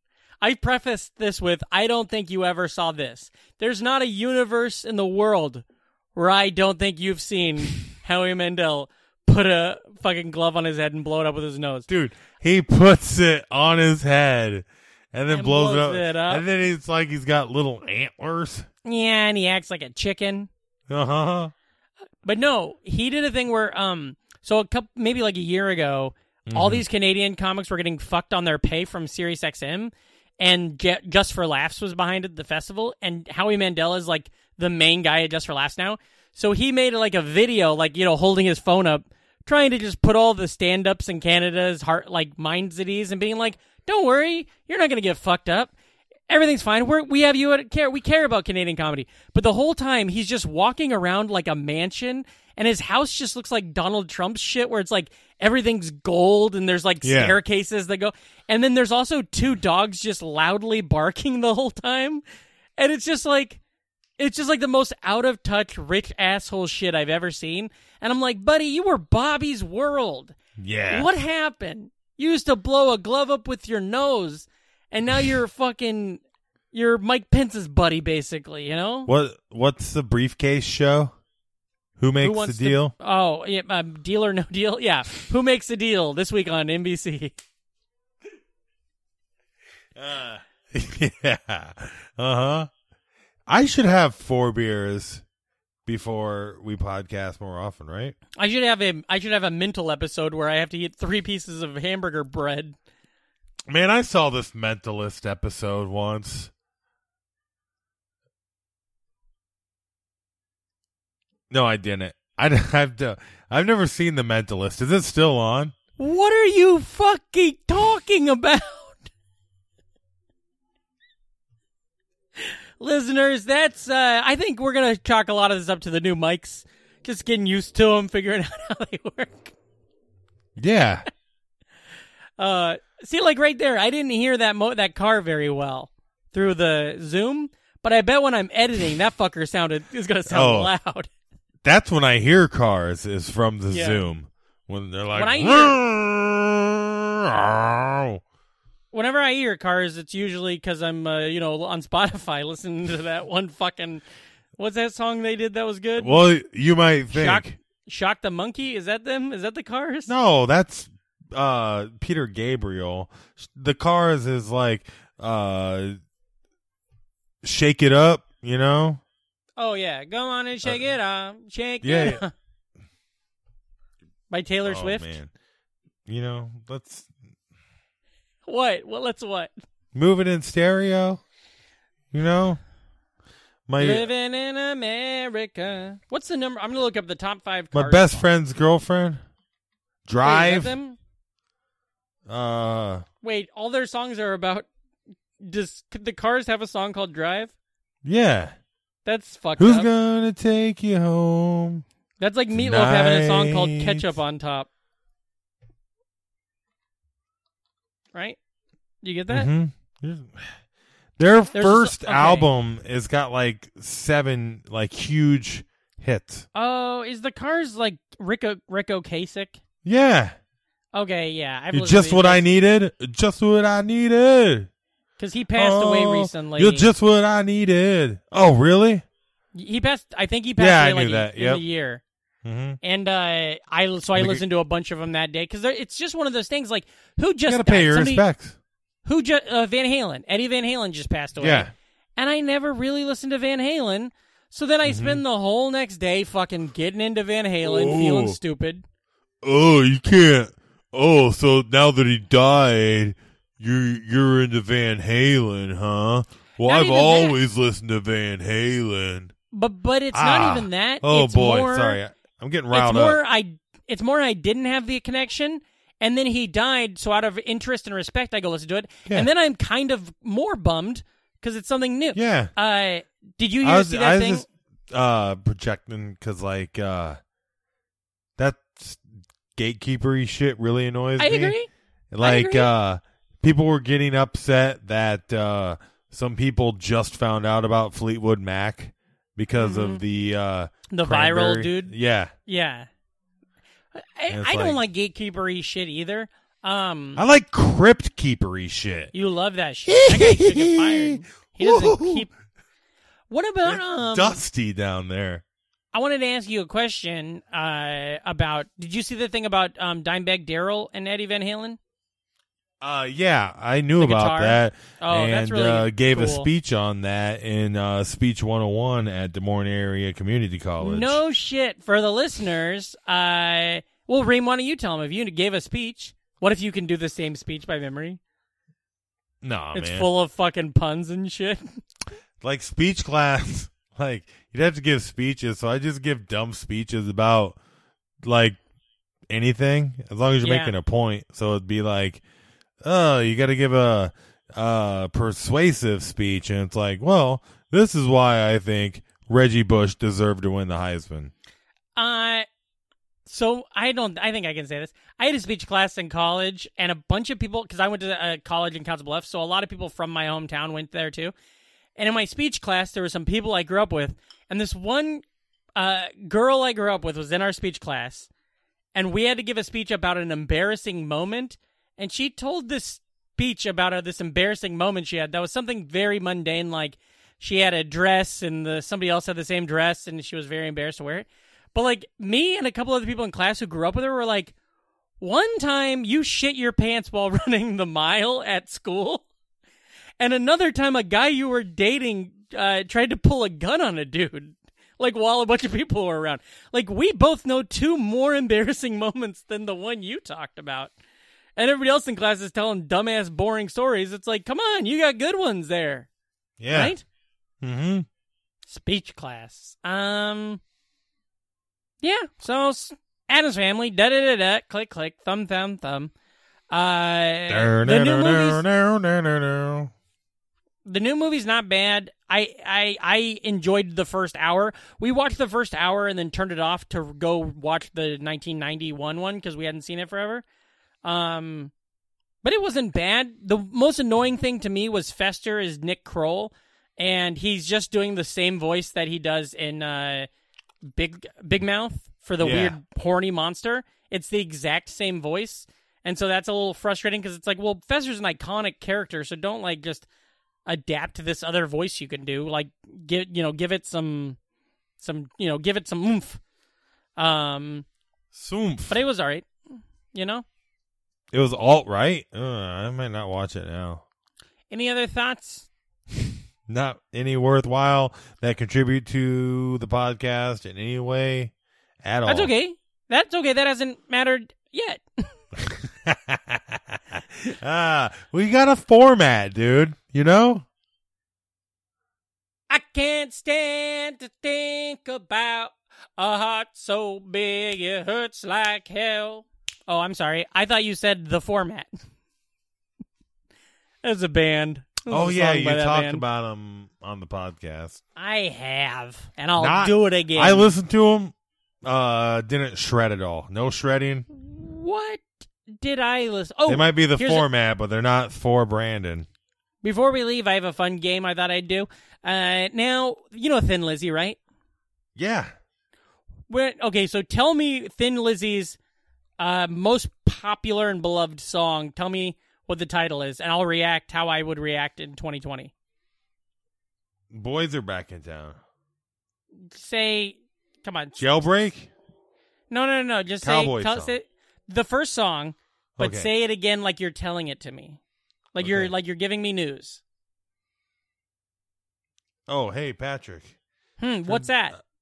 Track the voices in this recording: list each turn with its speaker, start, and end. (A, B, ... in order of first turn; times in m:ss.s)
0:00.4-0:05.6 A
0:06.1-0:11.9 A
0:11.9-0:18.7 B
0:15.3-0:16.4 A
0:18.8-0:20.5 A
0:20.9-0:21.5 B
0:22.2-0:45.7 A
0:26.5-0:26.8 B
0:46.3-1:02.2 A
0:57.0-0:57.4 B
1:02.8-1:03.6 A
1:04.2-1:10.3 A
1:10.6-1:11.1 B
1:10.9-1:16.2 A
1:16.7-1:19.1 A
1:19.0-1:21.1 B
1:22.0-1:22.9 B
1:22.2-1:27.3 A
1:29.9-1:32.7 B
1:33.5-1:35.2 B
1:35.8-1:38.2 B
1:38.4-1:42.8 A
1:43.7-1:46.5 B
1:51.5-1:55.7 B
1:56.0-1:59.0 A
2:02.4-2:09.5 A
2:10.6-2:11.0 B
2:12.4-2:21.1 A
2:20.3-2:20.7 B
2:21.6-2:28.2 B
2:23.7-2:24.0 A
2:25.1-2:25.8 A
2:28.9-2:34.0 A
2:34.6-2:36.2 A
2:36.0-2:37.5 B
2:37.1-2:40.1 A
2:40.1-2:46.0 B
2:47.4-2:49.0 B
2:49.6-2:52.3 A
2:51.8-2:52.2 B
2:54.3-2:55.1 A
2:54.6-2:55.3 B
2:56.0-2:57.1 B
2:58.4-2:59.5 A
2:59.9-3:01.2 B
3:02.1-3:02.6 B
3:03.7-3:04.1 B
3:03.8-3:08.3 A
3:07.7-3:09.2 B
3:10.0-3:10.7 B
3:10.2-3:11.0 A
3:12.2-3:13.0 B
3:13.2-3:14.7 A
3:15.4-3:17.5 A
3:18.0-3:18.5 B
3:19.0-3:19.9 A
3:19.6-3:21.8 B
3:22.2-3:24.7 A
3:22.5-3:24.1 B
3:29.0-3:29.5 A
3:29.3-3:30.5 B
3:31.2-3:36.4 B
3:31.5-3:32.5 A
3:36.5-3:39.6 A
3:39.8-3:40.4 B
3:40.9-3:42.5 A
3:41.7-3:44.7 B
3:45.2-3:46.9 A
3:45.5-3:49.0 B
3:49.5-3:52.0 A
3:50.6-3:51.6 B
3:52.4-3:52.8 B
3:52.8-3:58.2 A
3:54.1-3:54.4 B
3:57.5-3:58.6 B
3:59.0-4:08.8 A
4:01.4-4:01.7 B
4:04.8-4:05.2 B
4:07.6-4:08.4 B
4:09.4-4:19.3 B
4:16.6-4:17.4 A
4:19.5-4:22.0 A
4:20.1-4:23.2 B
4:22.7-4:34.4 A
4:32.1-4:32.5 B
4:33.6-4:37.2 B
4:38.4-4:41.6 B
4:41.2-4:41.7 A
4:42.1-4:52.3 B
4:42.2-4:42.7 A
4:49.6-4:50.0 A
4:50.9-4:51.9 A
4:52.4-4:52.9 A
4:53.9-4:57.2 A
4:54.3-4:54.8 B
4:57.2-4:59.1 B
4:59.1-5:02.3 A
4:59.9-5:02.3 B
5:03.3-5:04.4 A
5:03.6-5:05.4 B
5:05.9-5:11.8 A
5:12.8-5:21.2 B
5:14.0-5:16.5 A
5:20.8-5:28.2 A
5:29.4-5:30.1 B
5:29.7-5:31.8 A
5:32.4-5:37.6 B
5:38.2-5:38.6 B
5:39.3-5:42.2 B
5:40.4-5:40.7 A
5:42.8-5:51.3 B
5:52.0-5:52.4 A
5:53.2-6:01.3 A
6:02.0-6:05.2 A
6:05.8-6:08.3 A
6:08.9-6:24.5 A
6:25.2-6:29.2 A
6:30.2-6:40.9 A
6:41.6-6:46.1 A
6:46.6-6:47.0 B
6:46.7-6:47.0 A
6:47.6-6:48.1 B
6:48.7-6:50.6 A
6:52.0-6:56.1 A
6:56.7-6:58.6 A
6:57.5-6:59.9 B
7:00.8-7:10.4 A
7:11.0-7:11.7 A
7:12.4-7:20.3 A
7:20.8-7:30.0 A
7:22.4-7:22.8 B
7:30.6-7:34.4 A
7:35.0-7:36.4 A
7:37.2-7:37.8 A
7:38.3-7:39.0 B
7:38.9-7:39.5 A
7:40.1-7:40.4 A
7:41.3-7:44.0 B
7:44.7-7:45.7 A
7:46.1-7:52.5 B
7:52.2-7:55.3 A
7:55.6-8:00.6 B
8:02.7-8:11.9 A
8:14.0-8:16.2 A
8:15.1-8:18.0 B
8:18.2-8:20.7 A
8:19.6-8:21.3 B
8:21.8-8:24.2 B
8:24.3-8:27.4 A
8:26.7-8:29.3 B
8:29.8-8:34.4 A
8:35.2-8:35.5 B
8:36.5-8:38.8 A
8:39.4-8:45.7 A
8:47.3-8:48.6 B
8:49.7-8:51.2 A
8:51.2-8:51.9 B
8:52.7-8:58.0 A
8:53.4-8:54.2 B
8:56.0-8:56.3 B
8:58.5-9:00.0 A
8:58.6-8:58.9 B
9:02.5-9:03.6 B
9:04.0-9:04.8 A
9:04.3-9:04.6 B